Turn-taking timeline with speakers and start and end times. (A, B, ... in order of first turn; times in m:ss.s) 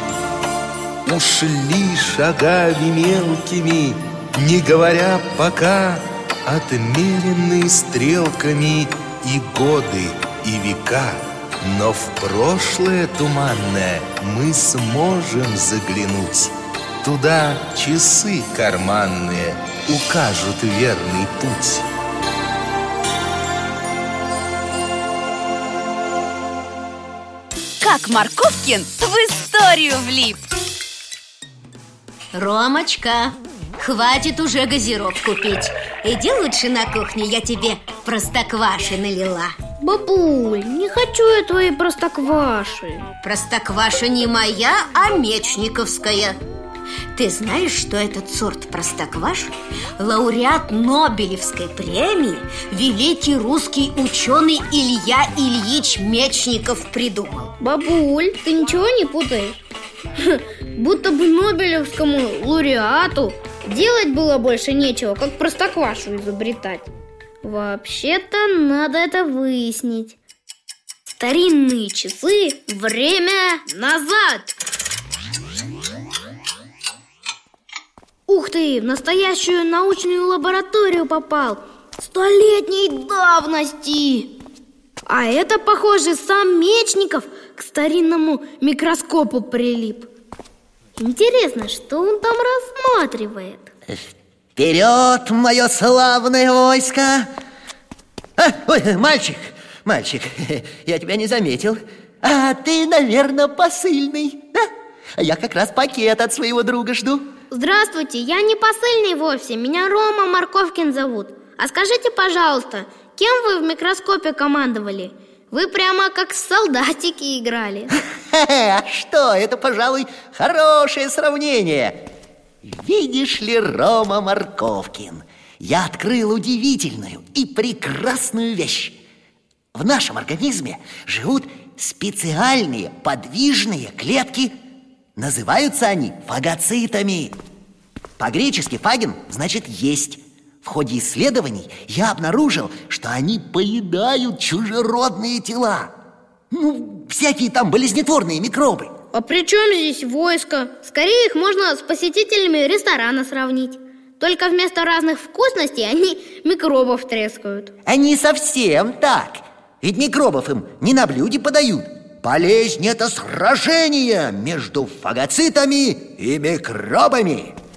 0:01.0-0:21.8 A
0:27.8-0:30.4 B
0:32.3-0:39.6 C
0:39.8-0:43.0 D
0:43.2-0:46.4 C
0:47.1-0:57.5 C
0:57.6-0:59.6 D
1:00.2-1:06.9 D
1:07.4-1:10.2 D
1:11.2-1:14.5 D
1:18.3-1:24.3 D
1:25.1-1:30.1 D
1:31.0-1:33.7 D
1:34.6-1:37.3 E
1:38.4-1:44.6 E
1:45.2-1:47.3 E
1:47.5-1:57.9 D
1:58.3-2:02.0 E
2:02.6-2:09.0 E
2:09.7-2:14.6 E
2:15.2-2:17.4 E
2:18.2-2:25.9 E
2:26.5-2:28.9 E
2:29.1-2:37.7 D
2:37.8-2:47.6 E